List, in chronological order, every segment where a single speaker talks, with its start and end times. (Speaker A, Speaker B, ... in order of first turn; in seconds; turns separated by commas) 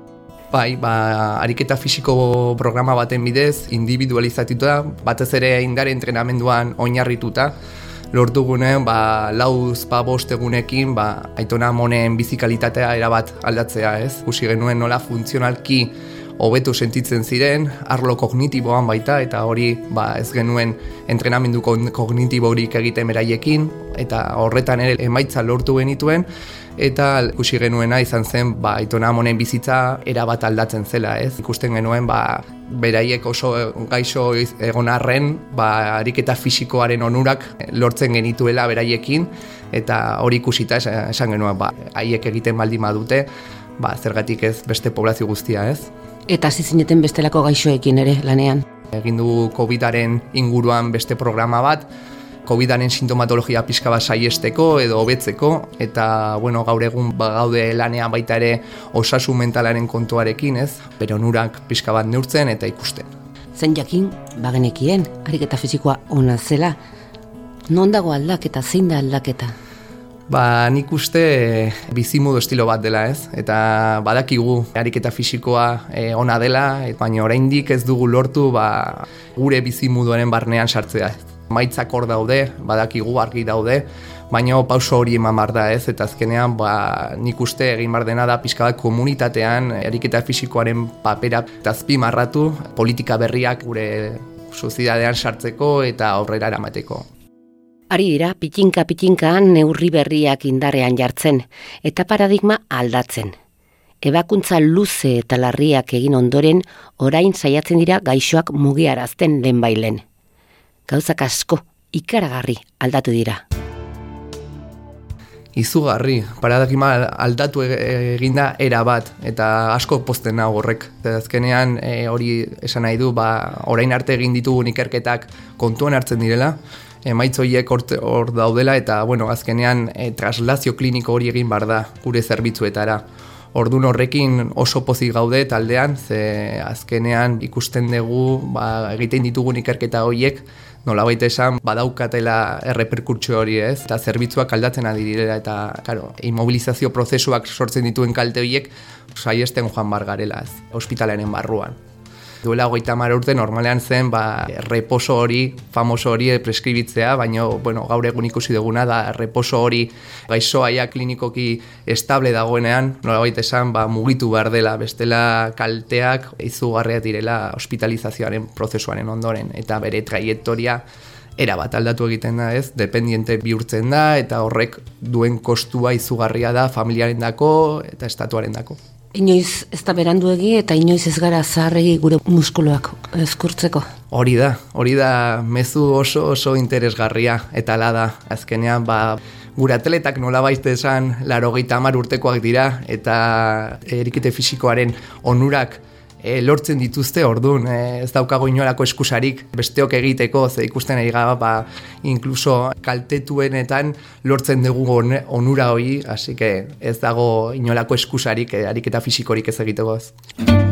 Speaker A: 0.5-7.5, Speaker A: 8.1-45.9, Speaker B: 46.3-48.6, Speaker A: 48.9-51.9, Speaker A: 52.4-63.1, Speaker B: 63.5-66.8, Speaker B: 67.7-69.5, Speaker A: 70.3-97.1, Speaker B: 97.9-103.3, Speaker B: 104.0-110.0, Speaker B: 110.9-113.4, Speaker A: 115.5-133.0, Speaker A: 133.5-151.8, Speaker A: 152.4-170.8, Speaker A: 171.4-178.8, Speaker B: 179.1-183.9, Speaker A: 184.1-210.1